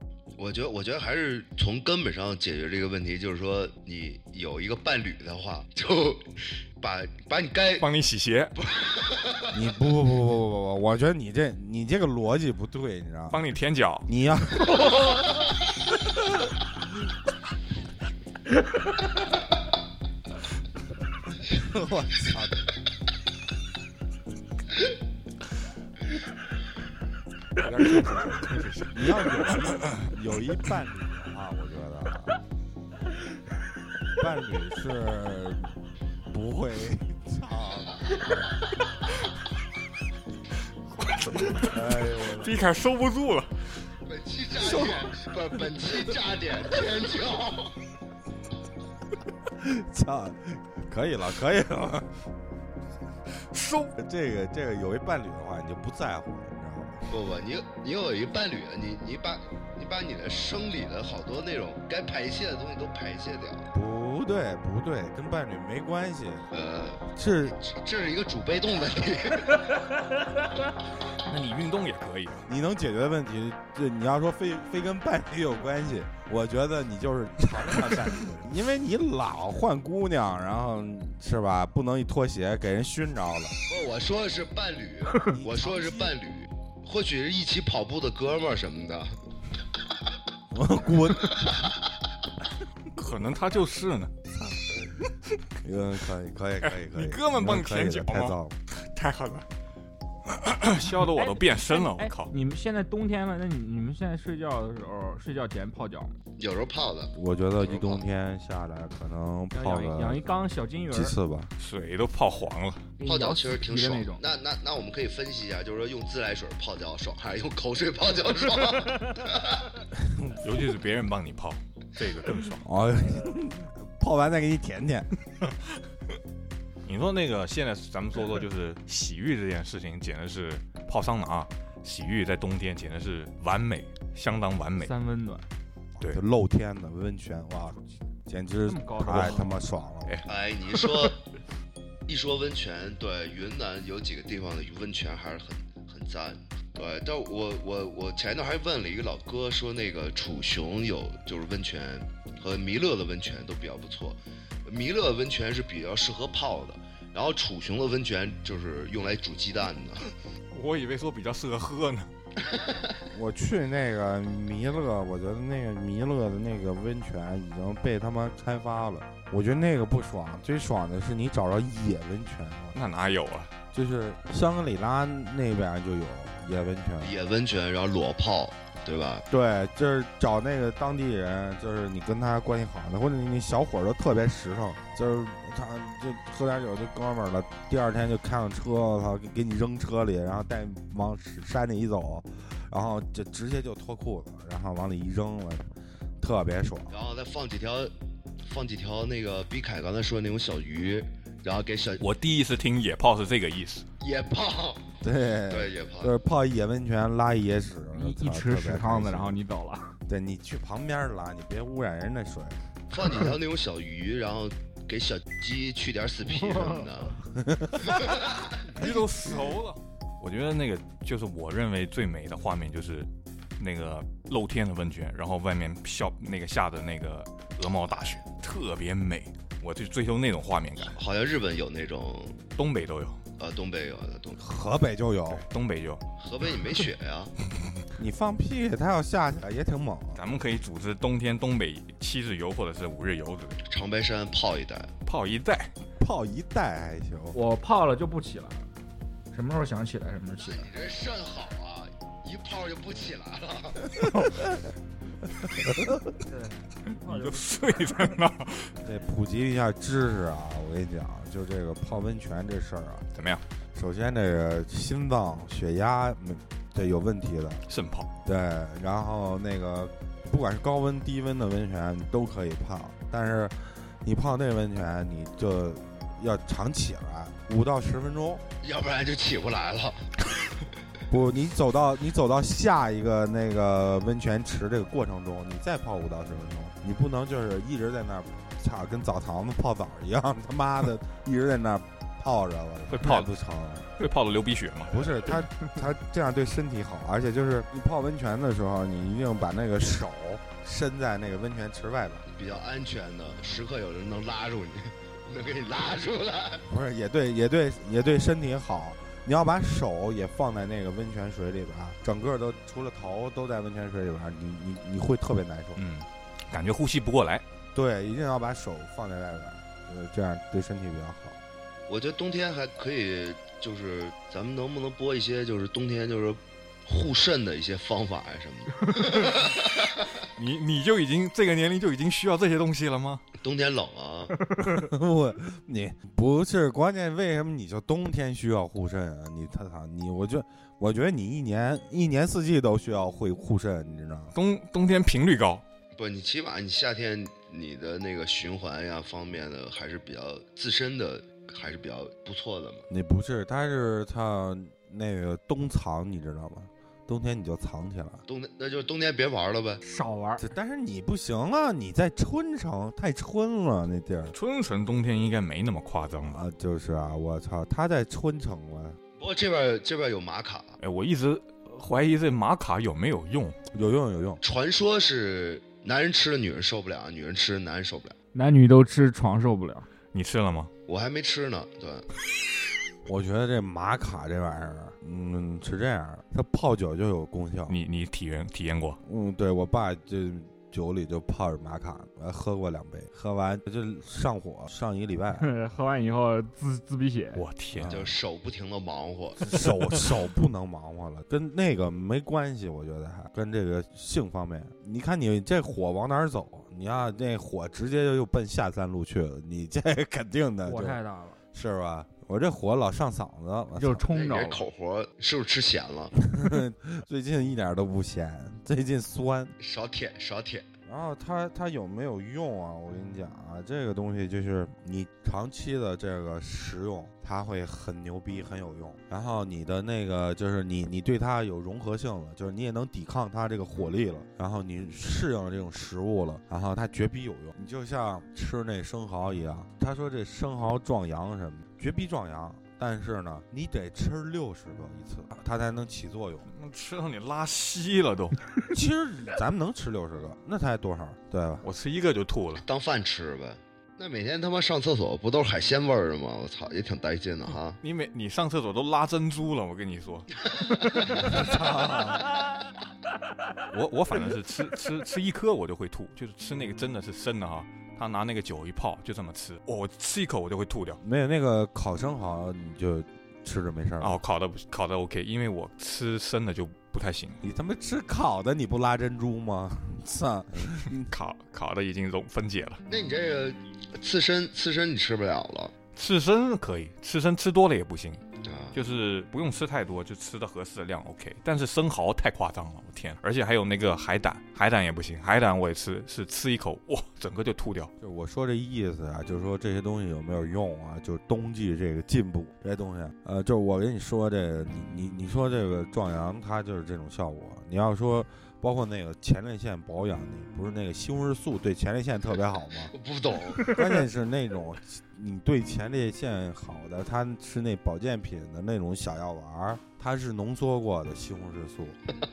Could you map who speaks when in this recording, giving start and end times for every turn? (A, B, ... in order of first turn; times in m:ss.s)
0:00.4-0:07.9 A
0:07.8-0:08.5 B
0:08.6-0:09.6 A
0:09.5-0:13.4 C
0:13.3-0:14.1 B
0:14.1-0:15.1 C
0:21.4-0:22.6 C
0:27.6-0:30.0 B
0:28.9-0:32.3 C
0:34.1-0:35.7 C
0:36.3-0:38.0 C
0:41.0-0:43.6 B
0:41.6-0:42.6 C
0:44.0-0:47.7 A
0:44.5-0:45.2 C
0:49.5-0:52.1 C
0:53.4-0:53.9 B
0:54.0-0:57.1 C
0:57.1-1:03.7 A
1:03.7-1:06.5 C
1:06.5-1:09.7 A
1:07.1-1:07.6 C
1:11.2-1:12.5 B
1:12.5-1:23.6 C
1:23.7-1:29.2 A
1:25.2-1:26.1 C
1:30.5-1:31.7 C
1:32.9-1:34.1 B
1:34.3-1:34.8 C
1:35.6-1:38.6 C
1:36.6-1:39.4 B
1:40.3-1:42.3 B
1:41.1-1:46.2 D
1:46.4-1:48.0 A
1:47.1-1:50.3 C
1:49.5-1:51.2 D
1:50.9-1:51.5 C
1:51.6-1:52.9 B
1:53.0-1:54.2 D
1:53.0-1:59.7 A
2:00.0-2:00.4 C
2:00.3-2:02.6 B
2:02.6-2:05.1 C
2:06.8-2:14.9 B
2:14.8-2:15.5 D
2:16.0-2:20.2 C
2:18.7-2:19.6 D
2:19.1-2:19.4 B
2:20.2-2:21.2 A
2:22.1-2:40.1 A
2:40.5-2:42.1 B
2:43.1-2:52.8 C
2:52.7-2:53.5 B
2:53.7-2:57.2 C
2:57.0-2:59.2 A
2:59.3-3:15.7 C
3:16.2-3:16.9 C
3:16.9-3:17.9 A
3:18.4-3:22.0 A
3:22.0-3:23.9 B
3:24.0-3:24.9 A
3:25.0-3:29.4 C
3:25.5-3:26.1 A
3:27.9-3:30.0 D
3:30.1-3:32.7 C
3:32.9-3:37.2 A
3:37.5-3:37.9 C
3:38.0-3:38.4 A
3:38.7-3:51.0 B
3:47.9-3:48.2 A
3:50.9-3:52.4 A
3:52.6-3:53.2 B
3:53.4-3:54.4 A
3:54.4-3:55.4 C
3:55.3-3:56.0 B
3:56.2-3:57.3 A
3:58.0-4:00.2 C
4:00.2-4:03.6 B
4:03.7-4:04.9 A
4:05.0-4:05.7 B
4:06.0-4:07.4 C
4:07.3-4:08.7 D
4:09.3-4:10.7 D
4:10.4-4:13.8 A
4:16.2-4:17.6 D
4:17.0-4:18.7 B
4:18.8-4:23.1 C
4:23.1-4:23.4 B
4:23.7-4:27.6 C
4:27.7-4:28.1 B
4:28.2-4:38.4 C
4:38.6-4:40.1 A
4:41.1-4:53.9 C
4:52.9-4:53.3 B
4:54.0-4:55.1 B
4:54.8-5:02.2 C
5:02.4-5:06.6 A
5:06.7-5:15.8 C
5:15.8-5:17.4 B
5:17.7-5:21.4 C
5:21.9-5:30.0 A
5:30.4-5:33.2 B
5:33.4-5:34.4 A
5:34.6-5:44.3 C
5:44.3-5:45.6 B
5:45.9-5:52.8 A
5:52.9-5:58.2 C
5:58.3-5:59.8 A
5:59.8-6:00.4 D
6:00.4-6:04.3 C
6:04.3-6:06.4 B
6:06.2-6:09.0 C
6:09.2-6:10.8 A
6:10.8-6:13.6 B
6:13.7-6:14.4 C
6:14.4-6:18.2 A
6:18.3-6:19.9 D
6:20.1-6:20.7 B
6:20.9-6:22.1 A
6:23.0-6:27.8 C
6:27.7-6:29.0 B
6:29.0-6:35.5 C
6:35.4-6:37.4 D
6:37.3-6:37.9 B
6:37.7-6:38.1 C
6:37.9-6:39.4 A
6:39.4-6:51.0 C
6:50.6-6:51.4 D
6:51.5-6:54.1 C
6:53.8-6:54.6 D
6:54.1-6:56.1 A
6:56.2-6:59.6 C
6:59.6-7:00.7 A
7:00.8-7:26.4 C
7:26.5-7:28.4 B
7:28.7-7:31.6 C
7:31.6-7:32.6 B
7:32.6-7:37.8 A
7:37.8-7:40.3 B
7:41.1-7:42.3 C
7:43.7-7:51.0 B
7:51.0-7:54.2 C
7:54.0-7:57.4 B
7:57.4-8:01.1 C
8:01.0-8:02.8 B
8:02.9-8:05.7 A
8:05.9-8:08.2 B
8:08.4-8:08.8 A
8:08.7-8:17.9 B
8:18.0-8:32.9 C
8:32.9-8:33.8 A
8:33.7-8:42.0 C